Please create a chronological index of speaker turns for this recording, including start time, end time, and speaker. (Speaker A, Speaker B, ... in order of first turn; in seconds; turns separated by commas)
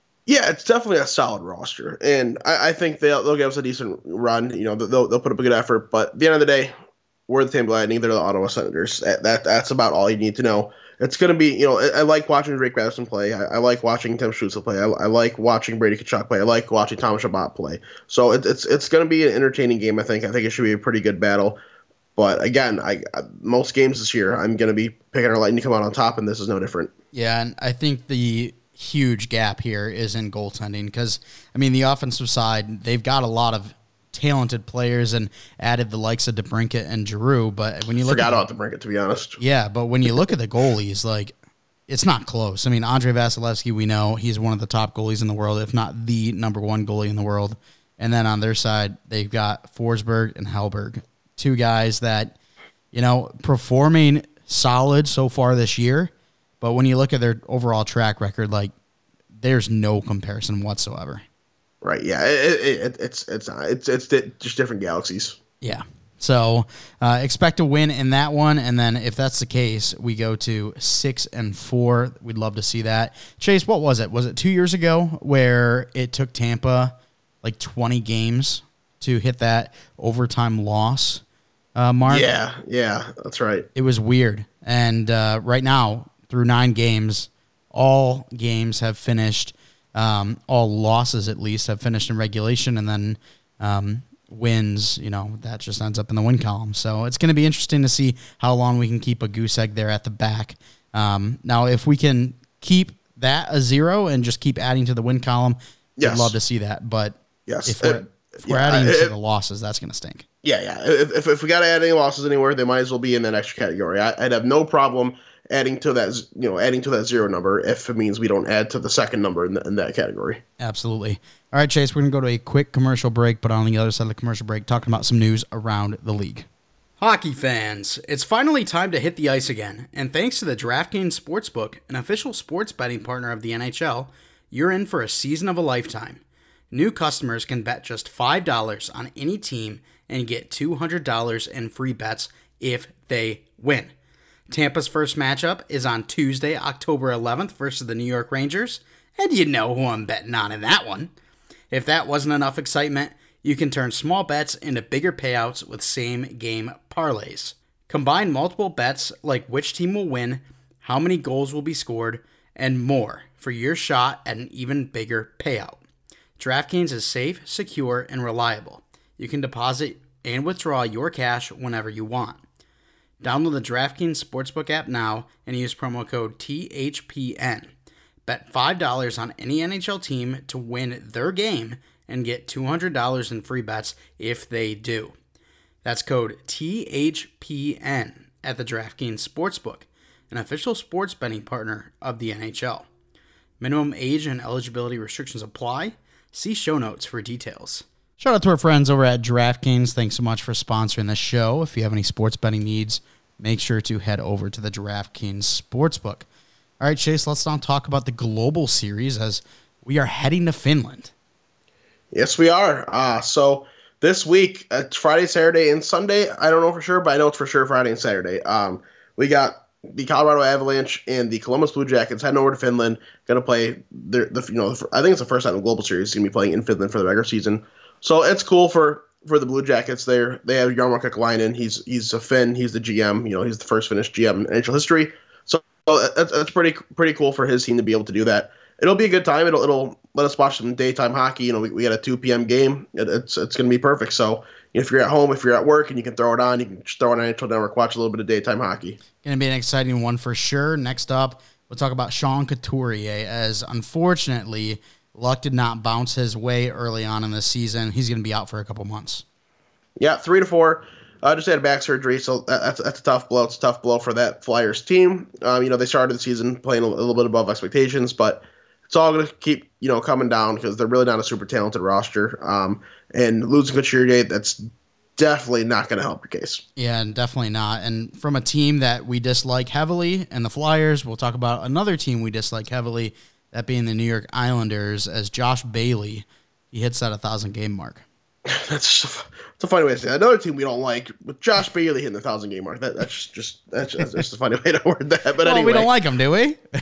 Speaker A: 0.3-6.7, Speaker A: 7.3-21.6, Speaker A: 22.1-26.9, Speaker B: 27.1-38.4, Speaker A: 38.0-39.4, Speaker B: 39.4-41.3, Speaker B: 41.9-52.4, Speaker B: 52.9-58.7, Speaker B: 59.3-61.2, Speaker A: 61.8-65.4, Speaker B: 65.6-81.2, Speaker B: 81.8-82.3, Speaker A: 82.1-83.7, Speaker B: 83.7-110.2, Speaker A: 106.0-106.3, Speaker A: 107.5-109.1, Speaker A: 110.4-120.4, Speaker B: 120.6-126.5, Speaker B: 127.0-143.9, Speaker B: 144.5-151.1, Speaker B: 151.7-165.8, Speaker B: 166.4-172.4, Speaker B: 173.2-177.7, Speaker B: 178.2-185.2, Speaker B: 185.8-192.9, Speaker B: 193.6-206.3, Speaker B: 206.8-211.1, Speaker A: 212.1-249.0, Speaker B: 249.2-259.2, Speaker A: 260.0-274.6, Speaker A: 275.2-276.6, Speaker B: 276.8-288.0, Speaker A: 288.4-295.9, Speaker B: 295.4-296.6